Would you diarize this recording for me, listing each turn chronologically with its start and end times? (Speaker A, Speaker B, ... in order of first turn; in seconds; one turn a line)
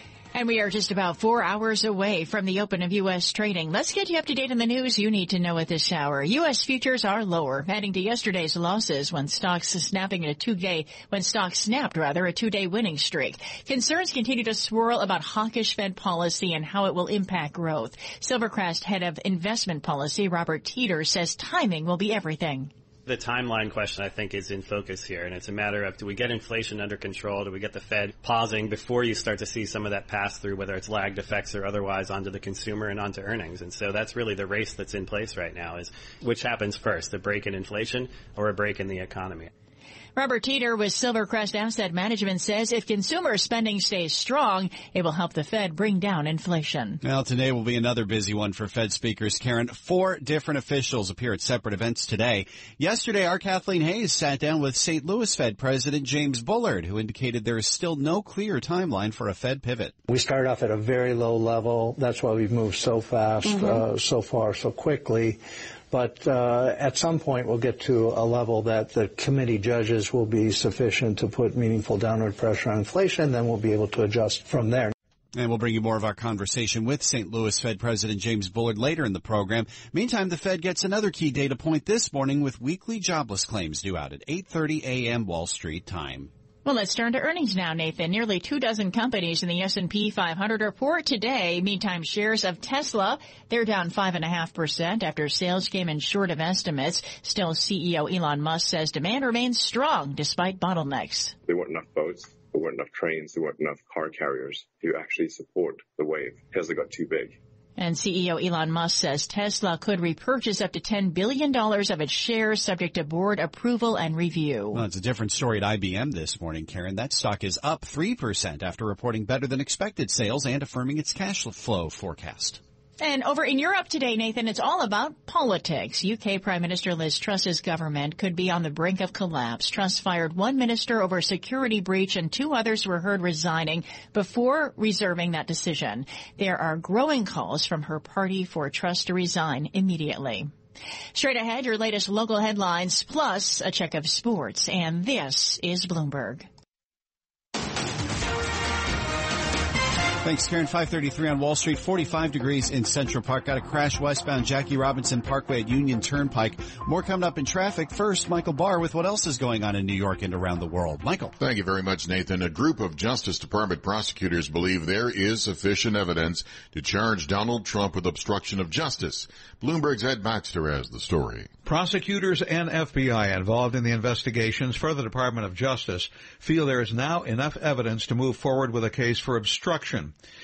Speaker A: 0.3-22.7
Speaker B: 23.1-39.5
Speaker A: 40.2-47.0
Speaker C: 47.0-59.9
Speaker D: 60.1-74.9
Speaker C: 75.3-86.3
Speaker A: 86.7-101.3
Speaker E: 101.5-107.3
Speaker A: 107.8-114.8
Speaker C: 114.7-122.6
Speaker A: 123.0-140.5
Speaker A: 141.1-146.5
Speaker C: 150.2-161.3
Speaker F: 161.4-171.5
Speaker G: 171.7-180.1